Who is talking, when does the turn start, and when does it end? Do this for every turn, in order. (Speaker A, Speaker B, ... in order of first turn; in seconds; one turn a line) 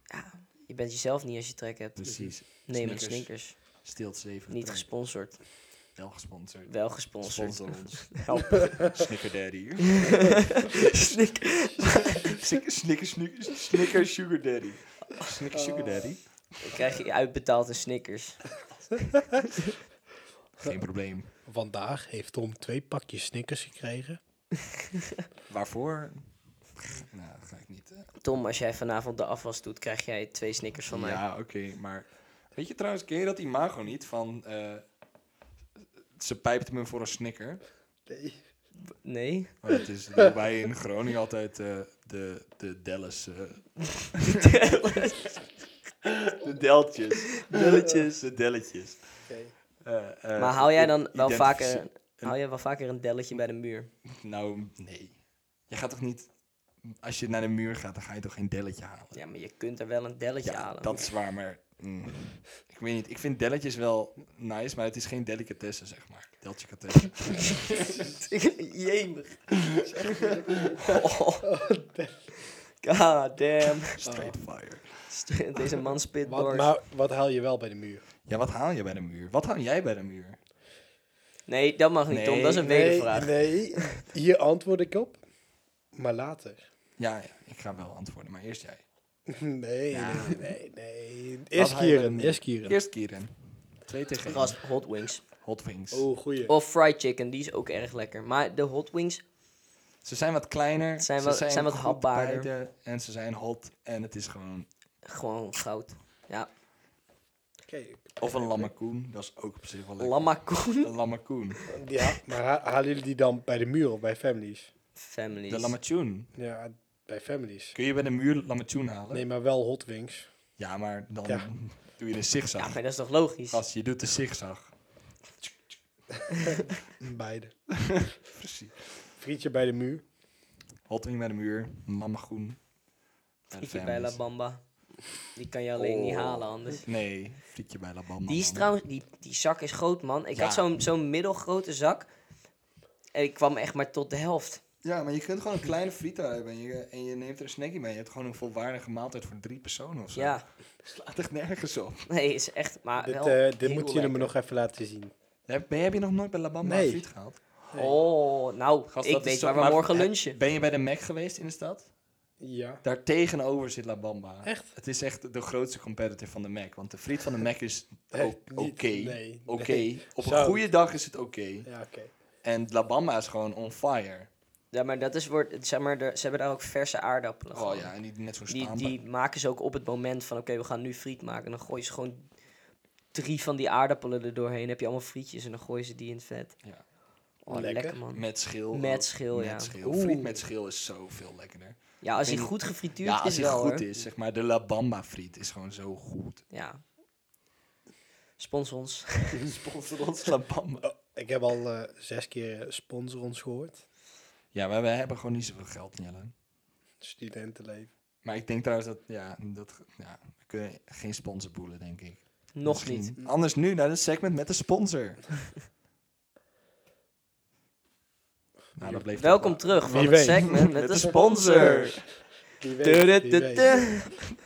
Speaker A: 0.1-3.8
Speaker B: 2.0-4.9
Speaker A: 4.5-5.4
Speaker B: 6.0-11.2
Speaker A: 6.7-9.0
Speaker A: 10.0-12.4
Speaker B: 12.2-16.3
Speaker C: 15.5-16.1
Speaker A: 16.6-18.5
Speaker B: 20.6-21.3
Speaker C: 21.5-24.2
Speaker A: 24.8-25.2
Speaker B: 25.5-26.3
Speaker B: 26.9-28.1
Speaker A: 28.2-31.2
Speaker B: 30.9-34.8
Speaker B: 36.2-37.6
Speaker C: 38.1-38.4
Speaker A: 39.0-39.6
Speaker B: 39.6-45.0
Speaker A: 44.3-45.3
Speaker B: 46.0-49.0
Speaker A: 47.3-48.3
Speaker C: 49.3-49.5
Speaker B: 49.8-52.4
Speaker A: 50.4-53.9
Speaker B: 54.1-55.2
Speaker B: 55.7-56.3
Speaker B: 56.8-59.2
Speaker A: 59.1-61.1
Speaker B: 60.4-68.0
Speaker A: 67.3-70.3
Speaker C: 67.7-68.2
Speaker C: 69.8-70.9
Speaker B: 70.7-71.0
Speaker A: 70.8-71.5
Speaker C: 71.4-72.3
Speaker A: 72.5-74.1
Speaker B: 74.0-75.1
Speaker C: 74.0-74.3
Speaker A: 75.1-76.7
Speaker C: 76.2-78.0
Speaker B: 78.3-80.4
Speaker A: 81.5-83.8
Speaker B: 82.1-82.7
Speaker C: 82.6-85.2
Speaker C: 85.9-86.6
Speaker B: 87.0-88.8
Speaker C: 89.3-92.8
Speaker B: 89.9-90.5
Speaker B: 91.5-94.6
Speaker A: 94.3-95.2
Speaker B: 95.4-96.1
Speaker C: 95.9-96.5
Speaker A: 96.5-99.2
Speaker B: 100.0-104.7
Speaker A: 101.0-102.5
Speaker A: 105.0-106.5
Speaker C: 107.7-108.7
Speaker B: 108.2-111.6
Speaker A: 110.0-110.9
Speaker C: 111.7-114.7
Speaker A: 115.0-115.8
Speaker B: 115.5-116.3
Speaker C: 116.4-117.8
Speaker B: 117.8-119.2
Speaker C: 119.1-120.3
Speaker B: 120.6-122.8
Speaker A: 122.6-123.6
Speaker B: 123.5-124.8
Speaker C: 127.0-127.6
Speaker B: 127.8-128.9
Speaker C: 129.2-130.1
Speaker B: 130.9-132.6
Speaker B: 133.5-134.2
Speaker A: 133.6-134.6
Speaker A: 135.3-136.9
Speaker B: 135.8-138.7
Speaker A: 138.3-142.1
Speaker B: 140.3-140.6
Speaker A: 143.1-144.6
Speaker B: 144.8-152.1
Speaker A: 150.2-150.4
Speaker A: 152.1-154.3
Speaker C: 153.0-155.1
Speaker B: 155.5-157.5
Speaker C: 156.6-157.1
Speaker A: 157.7-160.4
Speaker B: 158.9-161.9
Speaker C: 162.4-162.8
Speaker B: 162.8-171.7
Speaker C: 168.1-170.7
Speaker C: 171.7-172.1
Speaker B: 172.4-174.3
Speaker A: 174.7-177.9
Speaker B: 177.5-179.0
Speaker A: 178.5-182.3
Speaker A: 183.1-186.6
Speaker A: 187.4-189.7
Speaker C: 187.5-188.0
Speaker B: 188.1-196.4
Speaker C: 189.8-190.4
Speaker A: 192.0-193.9
Speaker A: 196.5-196.8
Speaker A: 198.4-199.5
Speaker B: 199.4-200.9
Speaker C: 200.8-203.8
Speaker B: 204.5-206.3
Speaker C: 207.0-207.9
Speaker B: 208.2-215.4
Speaker A: 212.5-213.1
Speaker B: 218.8-222.0
Speaker C: 218.8-219.1
Speaker A: 219.2-222.2
Speaker C: 219.8-220.6
Speaker C: 222.6-223.8
Speaker A: 222.8-224.2